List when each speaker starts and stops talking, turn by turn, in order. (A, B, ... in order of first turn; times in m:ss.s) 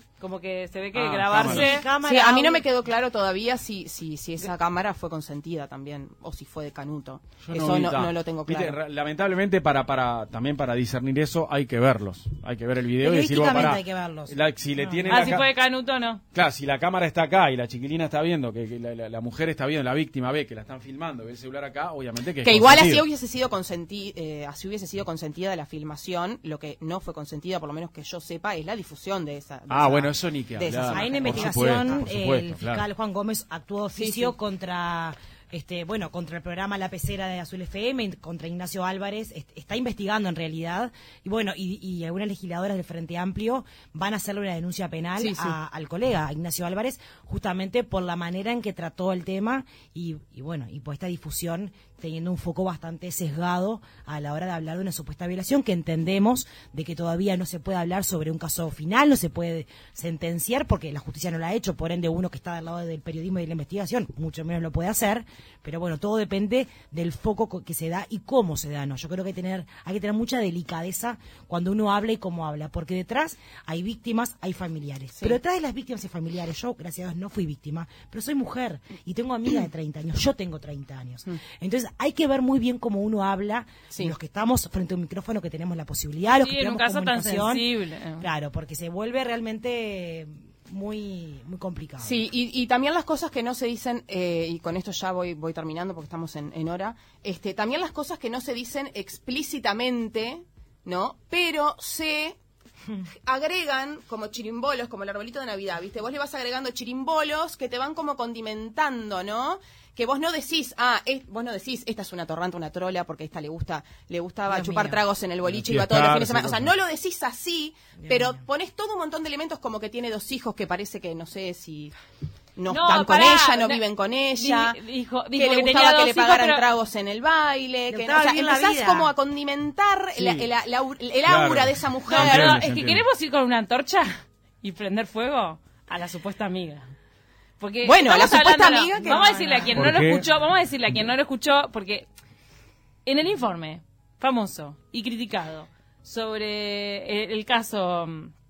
0:00.2-0:01.8 A
0:00.9-0:01.7 B
0:01.3-0:02.6 C
0:01.8-0:08.8 D
0:07.4-0:15.5 B
0:13.0-0:15.4 C
0:15.0-0:16.2 A
0:16.3-0:23.0 B
0:22.4-0:31.8 D
0:29.7-0:32.8 B
0:30.9-1:27.7 C
0:33.9-0:34.3 D
0:45.2-0:45.6 D
1:26.4-1:28.2 A
1:28.2-1:32.2 C
1:32.0-1:42.4 D
1:43.2-2:01.9 D
1:54.5-1:55.0 C
1:55.4-1:56.7 B
1:58.0-1:58.4 C
2:02.6-2:04.8 D
2:02.7-2:03.8 A
2:04.3-2:06.6 A
2:05.4-2:12.6 D
2:07.9-2:09.1 C
2:10.1-2:10.5 B
2:11.2-2:13.0 B
2:12.1-2:16.9 A
2:17.6-2:22.1 A
2:17.8-2:19.7 D
2:19.0-2:19.8 C
2:19.7-2:20.2 B
2:23.0-2:28.3 A